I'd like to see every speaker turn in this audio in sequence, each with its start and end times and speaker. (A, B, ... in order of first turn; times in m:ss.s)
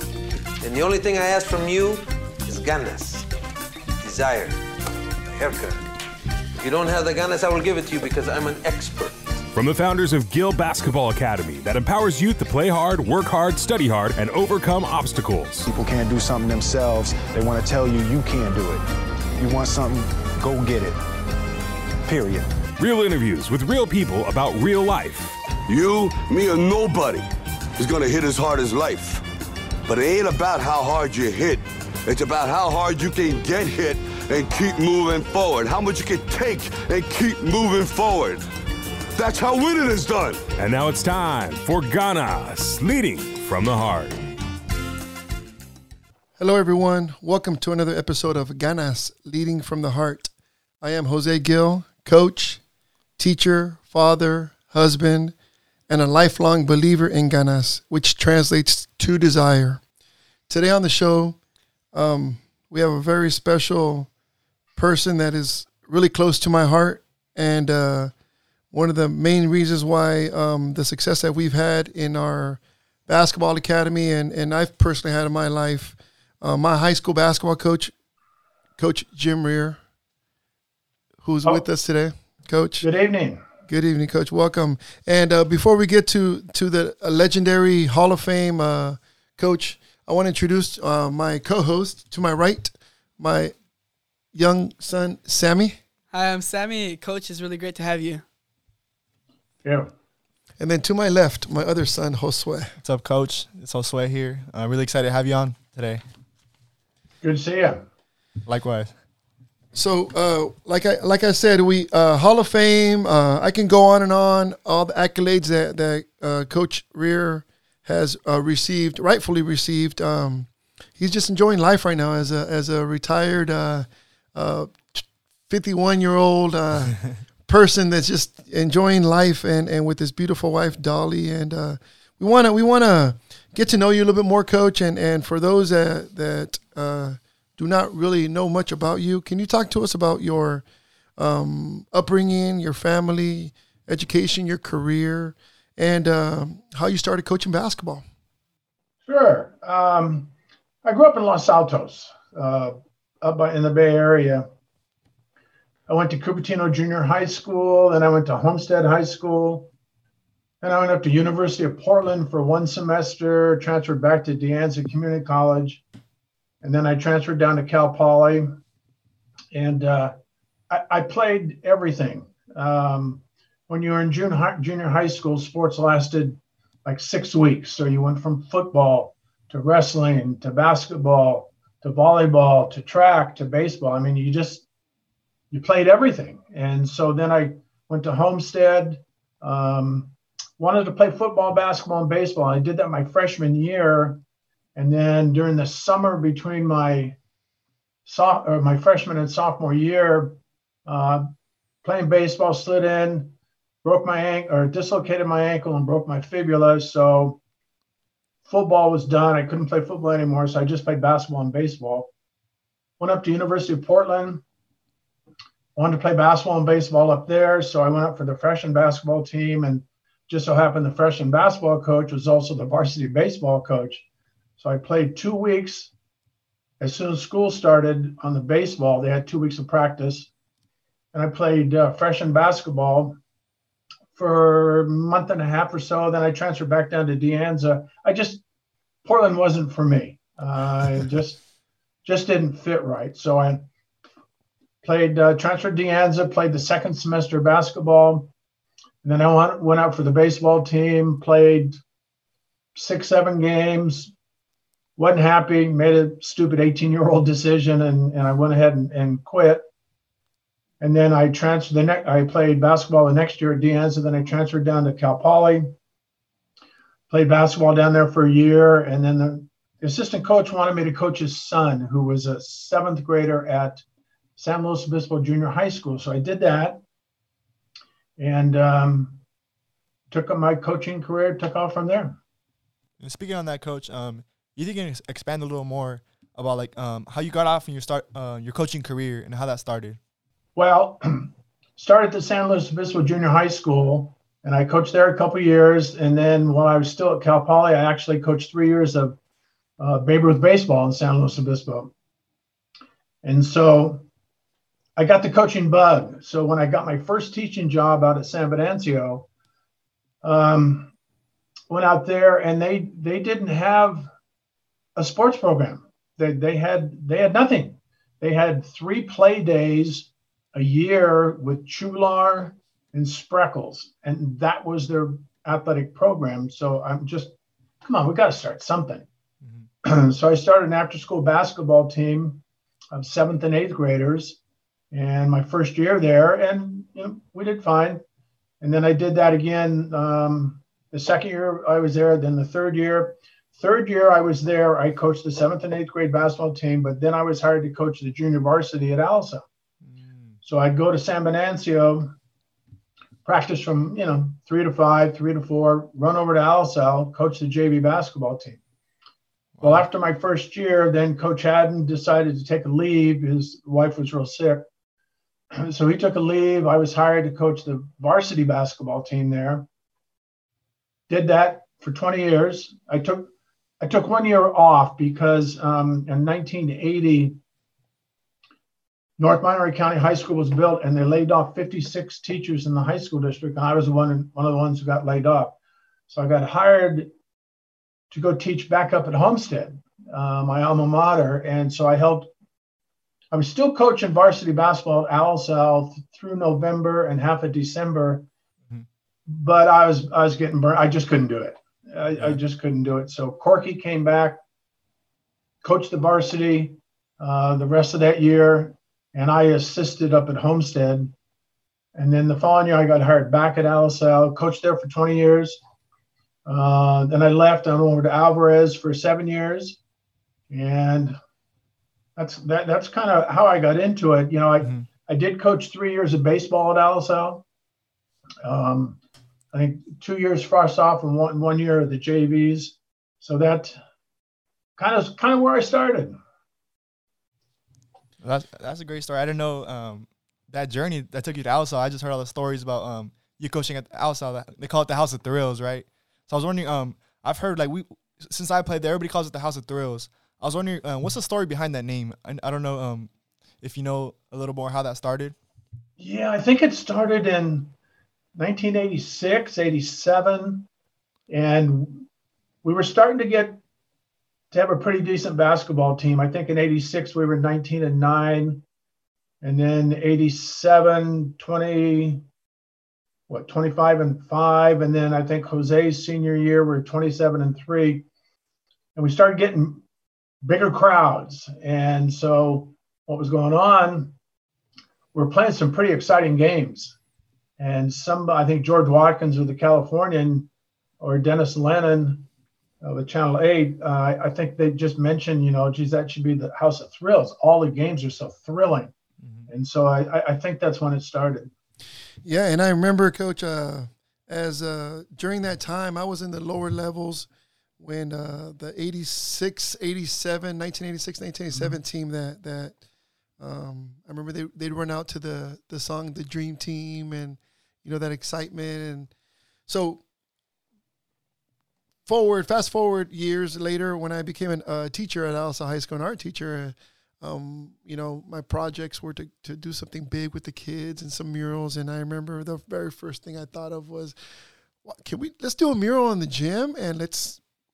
0:00.6-0:03.3 A
0:04.0-0:04.6 A
0:05.3-0:05.8 A
0:06.6-0:09.1 A
0:09.5-0:15.6 B
0:15.6-0:18.8 C
0:19.4-0:21.0 C
0:22.0-0:22.5 C
0:22.8-0:25.4 B
0:25.7-0:27.3 D
0:27.8-0:29.2 D
0:29.9-0:38.4 D
0:39.2-0:40.5 D
0:40.5-0:44.2 B
0:46.4-0:50.3 E
0:50.8-0:52.6 E
0:53.2-0:55.3 E
0:55.9-0:59.8 E
1:00.5-1:01.4 E
1:01.9-1:04.1 E
1:04.8-1:08.1 E
1:08.7-1:17.9 E
1:18.8-1:19.8 E
1:21.2-1:22.8 E
1:22.8-1:23.4 F
1:23.7-1:33.5 E
1:34.3-1:35.8 E
1:36.1-1:38.2 G
1:39.6-1:39.9 F
1:40.6-1:42.7 E
1:42.8-1:46.0 H
1:47.2-1:47.8 F
1:48.4-1:48.9 H
1:49.7-2:20.6 E
2:21.2-2:28.0 E
2:29.0-2:30.3 F
2:30.8-2:34.4 F
2:35.9-2:39.7 F
2:40.6-2:45.8 F
2:46.6-2:48.5 F
2:49.5-2:50.1 F
2:50.7-3:04.6 F
3:05.5-3:14.2 F
3:14.7-3:17.2 F
3:18.0-3:21.2 F
3:21.8-3:27.4 F
3:28.4-3:32.1 F
3:33.0-3:34.4 F
3:35.8-3:44.0 F
3:44.6-3:45.9 F
3:46.8-3:50.3 F
3:51.1-3:53.2 F
3:54.1-3:58.4 F
3:59.0-4:01.4 F
4:02.0-4:03.6 F
4:04.8-4:08.3 F
4:09.0-4:11.8 F
4:12.7-4:14.1 F
4:15.0-4:19.6 F
4:20.8-4:25.7 F
4:27.1-4:33.8 F
4:34.4-4:36.8 F
4:38.2-4:39.2 F
4:40.1-4:42.2 F
4:43.0-4:50.0 H
4:50.6-4:59.2 F
4:59.8-5:01.9 F
5:03.2-5:04.0 F
5:05.0-5:09.3 F
5:10.2-5:10.9 F
5:11.7-5:14.1 F
5:15.0-5:29.0 F
5:29.8-5:32.4 F
5:32.9-5:34.4 F
5:34.9-5:38.0 F
5:38.6-5:49.4 F
5:49.8-5:50.4 H
5:50.4-5:52.1 F
5:53.2-5:58.6 F
5:59.6-5:59.8 H
5:59.6-6:04.6 F
6:05.5-6:09.6 F
6:11.1-6:13.3 F
6:13.8-6:17.4 F
6:19.2-6:25.6 F
6:26.1-6:27.1 F
6:28.1-6:32.3 F
6:33.3-6:38.3 F
6:39.3-6:44.4 F
6:45.6-6:51.1 F
6:51.9-6:55.6 F
6:56.4-6:59.8 F
7:00.5-7:01.2 F
7:02.2-7:07.4 F
7:08.4-7:09.0 F
7:09.5-7:13.8 F
7:14.8-7:16.2 F
7:18.2-7:33.1 H
7:33.6-7:35.4 H
7:36.0-7:37.7 F
7:38.4-7:40.7 F
7:41.3-7:42.0 F
7:42.6-7:43.6 F
7:44.5-7:48.6 F
7:49.4-7:52.2 F
7:53.3-7:58.0 F
7:58.9-7:59.8 F
8:00.4-8:04.1 F
8:05.1-8:06.9 F
8:07.6-8:10.5 F
8:11.0-8:12.2 F
8:12.8-8:18.9 F
8:19.2-8:19.5 H
8:19.5-8:21.5 F
8:22.2-8:27.3 E
8:27.8-8:32.7 E
8:33.4-8:39.1 E
8:39.7-8:40.0 E
8:42.0-8:54.2 E
8:54.8-8:57.4 E